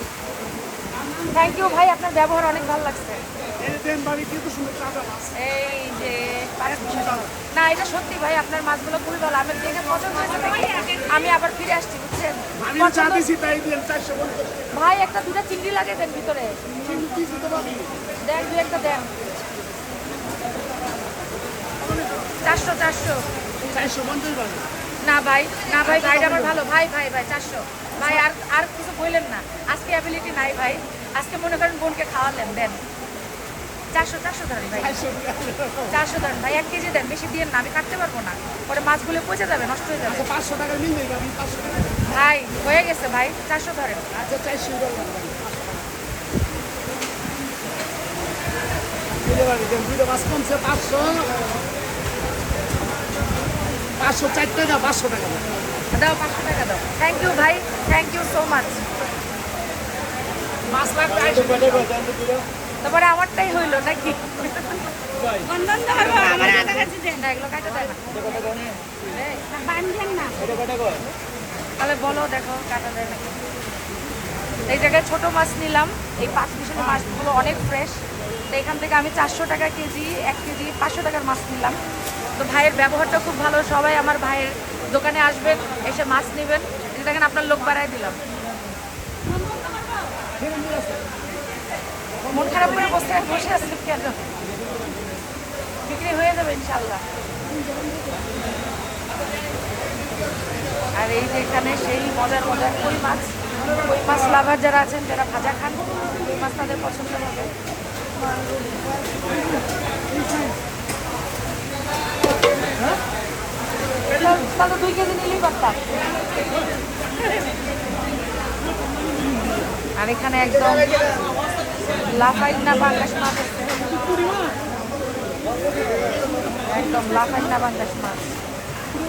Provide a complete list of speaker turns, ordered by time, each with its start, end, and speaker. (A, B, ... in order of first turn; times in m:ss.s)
0:01.3-0:03.3 A
0:03.6-0:05.3 B
0:05.4-0:13.3 A
0:06.8-0:07.3 B
0:12.6-0:14.7 B
0:14.7-0:16.6 A
0:16.8-0:17.9 B
0:18.2-0:19.1 A
0:22.4-0:23.2 A
0:23.6-0:24.6 B
0:25.0-0:32.8 A
0:25.8-0:26.5 B
0:33.9-0:35.0 A
0:34.8-0:36.0 B
0:35.9-0:40.3 A
0:40.1-0:42.0 B
0:42.0-0:44.2 A
0:44.1-0:45.8 B
0:49.2-0:51.4 B
0:54.0-0:55.5 B
0:55.9-0:58.8 A
1:00.7-1:02.4 B
1:02.8-1:04.9 A
1:05.5-1:07.2 C
1:06.4-1:09.5 A
1:09.5-1:10.6 C
1:11.8-1:13.4 A
1:14.7-1:21.8 A
1:22.4-1:28.2 A
1:29.5-1:29.9 C
1:30.4-1:31.0 B
1:32.3-1:34.2 A
1:35.8-1:37.0 A
1:41.0-1:47.6 A
1:54.1-1:56.0 A
2:00.0-2:01.2 A
2:02.0-2:04.0 A
2:06.6-2:08.3 A